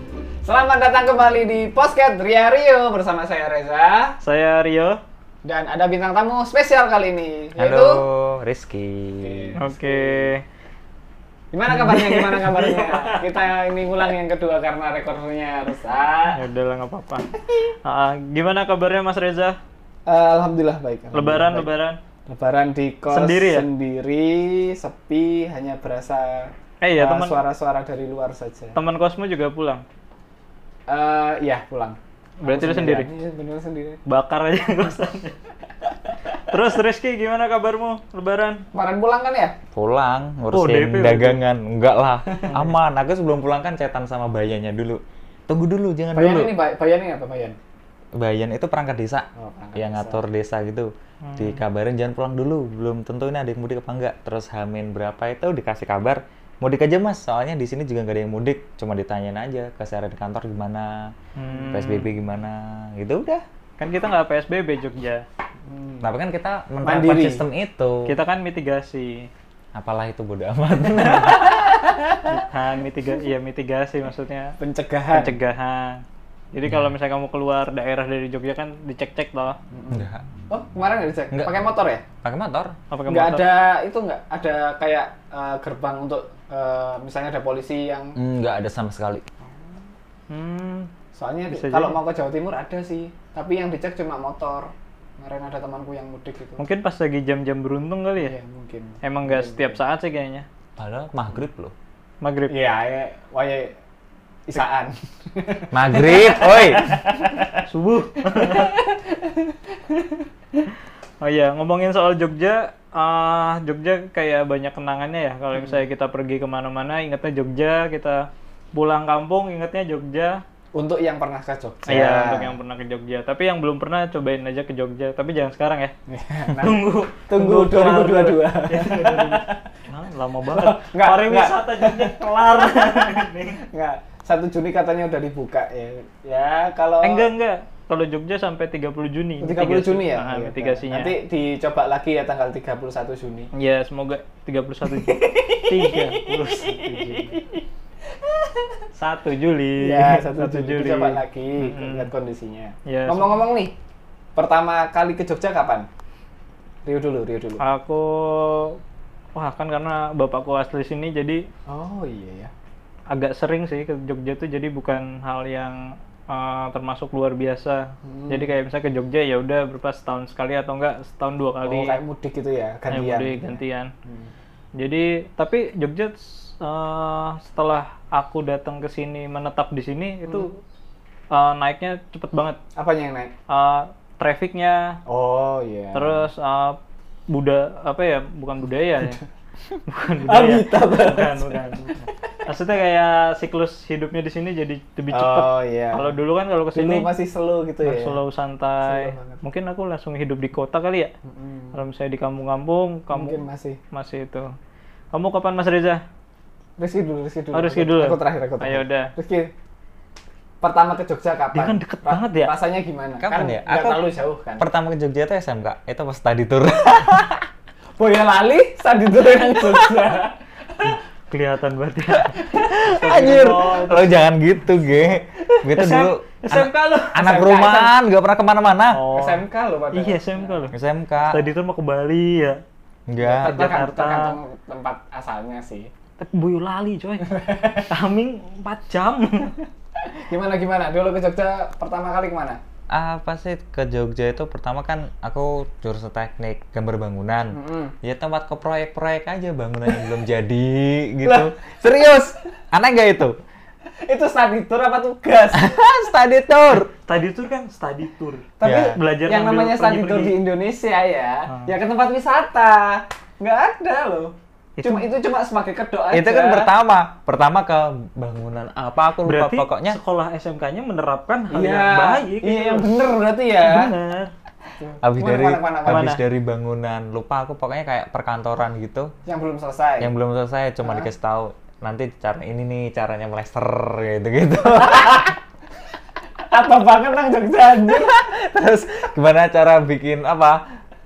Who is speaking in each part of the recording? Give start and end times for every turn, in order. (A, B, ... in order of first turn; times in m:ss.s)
0:00.4-0:04.2 A
0:04.2-0:05.0 B
0:05.4-0:08.0 A
0:07.6-0:09.6 C
0:09.2-0:10.3 A
0:09.6-0:10.4 B
0:11.5-0:16.4 A
0:11.7-0:13.2 B
0:16.3-0:17.2 B
0:17.8-0:19.6 B
0:20.0-0:21.7 A
0:21.1-0:22.0 B
0:22.3-0:28.8 A
0:23.1-0:23.7 B
0:26.8-0:27.3 B
0:28.7-0:29.8 B
0:30.9-0:34.0 A
0:32.4-0:33.1 B
0:34.0-0:35.4 B
0:36.2-0:38.6 B
0:38.7-0:39.6 A
0:39.7-0:46.6 C
0:40.5-0:41.4 B
0:42.4-0:42.7 A
0:46.1-0:47.6 A
0:48.2-1:01.1 C
0:49.4-0:50.2 A
0:51.2-0:51.6 B
1:01.4-1:02.1 B
1:01.7-1:03.4 C
1:03.8-1:05.2 B
1:05.6-1:06.1 A
1:06.0-1:08.1 C
1:06.8-1:07.4 A
1:08.0-1:09.3 B
1:09.7-1:11.7 C
1:10.8-1:12.2 A
1:12.2-1:14.6 B
1:14.6-1:15.3 A
1:15.1-1:19.6 B
1:19.7-1:22.0 A
1:19.9-1:20.2 C
1:21.3-1:21.6 C
1:22.2-1:22.8 C
1:22.9-1:23.4 B
1:23.1-1:28.2 A
1:28.2-1:29.2 C
1:30.3-1:30.9 B
1:31.1-1:36.6 A
1:31.5-1:32.0 B
1:36.6-1:38.3 B
1:38.2-1:39.8 A
1:39.0-1:40.5 B
1:40.8-1:41.7 C
1:42.2-1:42.5 B
1:42.5-1:43.7 A
1:44.5-1:47.6 A
1:45.7-1:47.0 C
1:47.6-1:48.7 B
1:48.3-1:50.2 A
1:51.2-2:00.4 B
1:55.5-1:55.8 A
2:00.7-2:02.6 A
2:01.9-2:05.9 B
2:06.1-2:09.6 A
2:06.6-2:13.6 B
2:10.5-2:13.1 A
2:13.6-2:17.3 A
2:17.0-2:21.1 B
2:19.4-2:23.5 A
2:23.5-2:27.3 B
2:24.9-2:27.6 A
2:28.1-2:28.8 A
2:28.9-2:32.1 B
2:29.8-2:33.7 A
2:32.8-2:33.3 B
2:34.4-2:35.9 A
2:36.8-2:37.6 A
2:37.6-2:38.8 B
2:39.4-2:41.4 B
2:41.7-2:42.5 A
2:43.1-2:52.0 B
2:48.0-2:48.6 A
2:51.6-2:54.3 A
2:52.9-2:53.9 B
2:54.8-3:00.6 B
3:01.3-3:02.6 B
3:02.8-3:03.3 A
3:03.5-3:05.0 B
3:05.1-3:06.2 A
3:05.9-3:06.8 B
3:07.3-3:09.2 B
3:09.0-3:09.2 A
3:09.9-3:17.1 B
3:10.2-3:12.4 A
3:15.1-3:16.2 A
3:16.7-3:18.2 A
3:17.8-3:21.1 B
3:18.8-3:19.4 A
3:21.2-3:21.8 A
3:21.7-3:23.4 B
3:23.1-3:23.8 A
3:23.9-3:24.5 B
3:25.1-3:26.0 B
3:26.8-3:29.5 A
3:27.5-3:29.1 B
3:30.6-3:34.6 A
3:31.5-3:32.5 B
3:33.2-3:37.5 C
3:38.0-3:41.0 A
3:40.8-3:44.1 B
3:42.5-3:49.0 C
3:45.7-3:47.2 B
3:47.2-3:47.9 A
3:48.9-3:50.7 B
3:49.1-3:50.7 A
3:50.7-3:51.4 C
3:51.2-3:52.6 B
3:53.1-3:53.7 C
3:53.2-3:55.9 A
3:53.4-3:54.4 B
3:56.2-3:59.6 B
3:57.2-3:57.9 A
4:00.0-4:02.6 A
4:02.9-4:13.3 C
4:07.5-4:07.9 A
4:11.2-4:12.2 A
4:14.0-4:15.8 A
4:15.5-4:16.9 C
4:17.0-4:20.3 B
4:18.6-4:26.7 A
4:18.6-4:19.0 C
4:21.5-4:21.7 B
4:24.8-4:25.0 B
4:26.1-4:30.0 C
4:29.2-4:33.1 B
4:31.5-4:33.9 A
4:33.6-4:34.3 B
4:34.8-4:36.1 A
4:35.0-4:39.1 C
4:35.8-4:36.2 B
4:39.2-4:40.1 A
4:40.0-4:45.3 C
4:44.8-4:45.3 A
4:46.5-4:49.1 A
4:48.9-4:50.6 C